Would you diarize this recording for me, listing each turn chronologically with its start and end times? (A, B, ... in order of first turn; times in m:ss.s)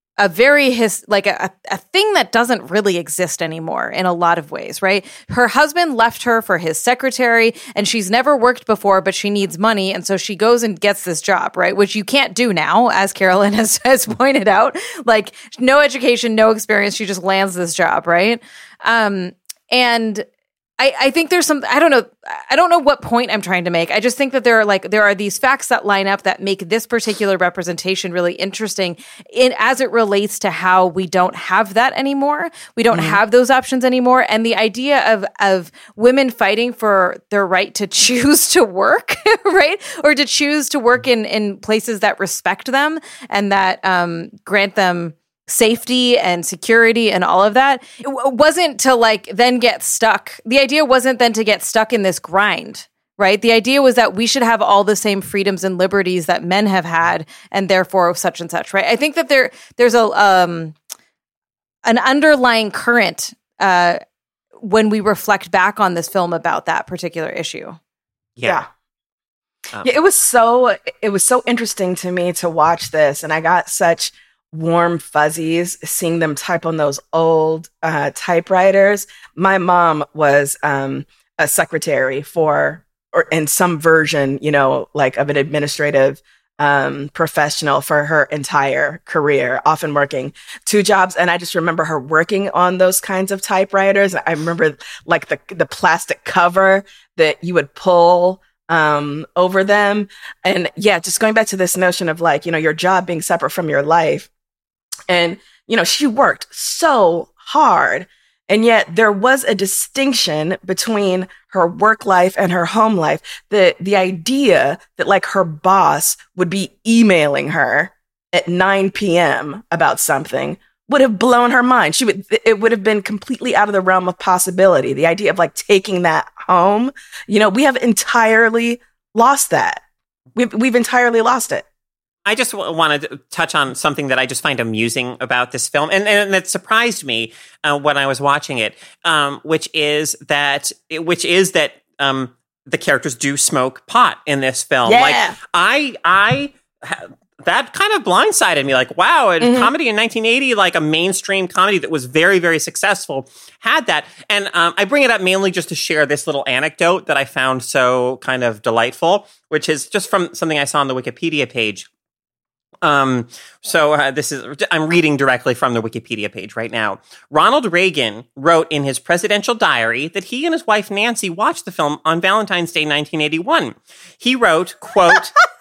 0:00.2-0:20.2 A
0:20.8-1:00.8 A
0:32.9-0:33.2 B
1:01.8-1:04.0 A
1:04.6-1:07.8 A
1:08.4-1:08.6 C
1:09.8-1:44.3 B
1:45.1-2:09.8 B
2:10.3-2:11.6 B
2:12.2-2:41.9 C
2:24.8-2:25.4 B
2:29.4-2:29.7 B
2:42.8-2:55.4 C